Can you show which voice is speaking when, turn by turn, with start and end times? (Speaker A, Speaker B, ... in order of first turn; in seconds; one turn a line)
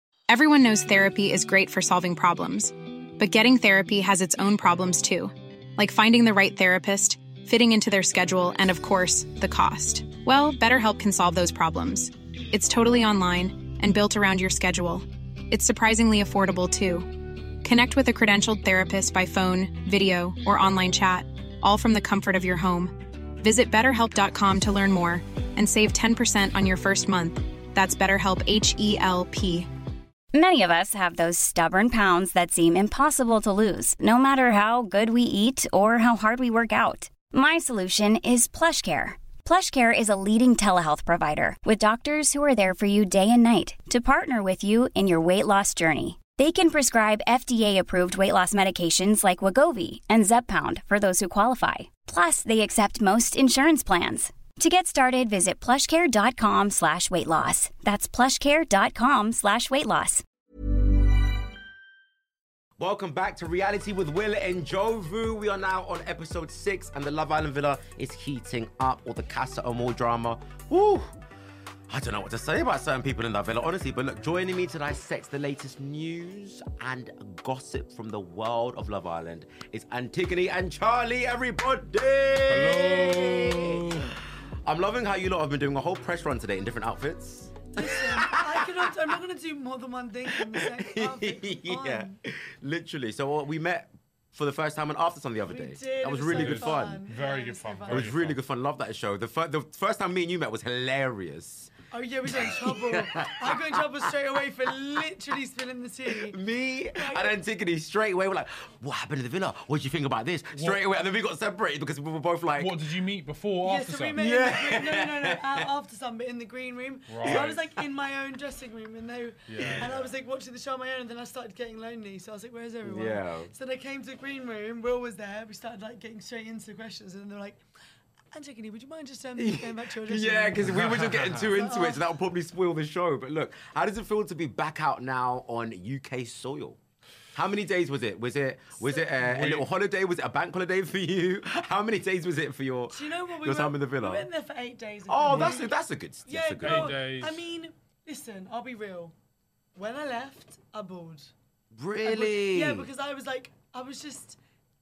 Speaker A: 0.3-29.7
Speaker B: 30.3-60.2
Speaker C: 62.8-71.1
Speaker C: 71.9-88.9
Speaker D: 82.5-84.1
Speaker E: 87.7-92.2
Speaker C: 90.3-97.0
Speaker E: 95.5-98.0
Speaker D: 96.3-98.4
Speaker C: 97.9-101.7
Speaker E: 101.9-106.4
Speaker C: 102.3-104.1
Speaker C: 106.1-112.8
Speaker E: 106.9-107.3
Speaker D: 112.6-114.2
Speaker E: 113.6-127.6
Speaker C: 114.2-115.6
Speaker D: 117.1-117.6
Speaker C: 117.2-117.6
Speaker D: 119.5-119.9
Speaker C: 119.6-120.0
Speaker C: 122.8-123.5
Speaker E: 128.3-130.9
Speaker C: 129.4-136.8
Speaker D: 130.7-131.5
Speaker E: 131.5-132.1
Speaker C: 137.3-144.2
Speaker D: 139.2-139.7
Speaker E: 142.9-145.7
Speaker C: 145.1-146.9
Speaker E: 146.2-149.1
Speaker D: 146.6-147.4
Speaker E: 149.8-151.3
Speaker C: 151.7-152.9
Speaker E: 152.0-154.4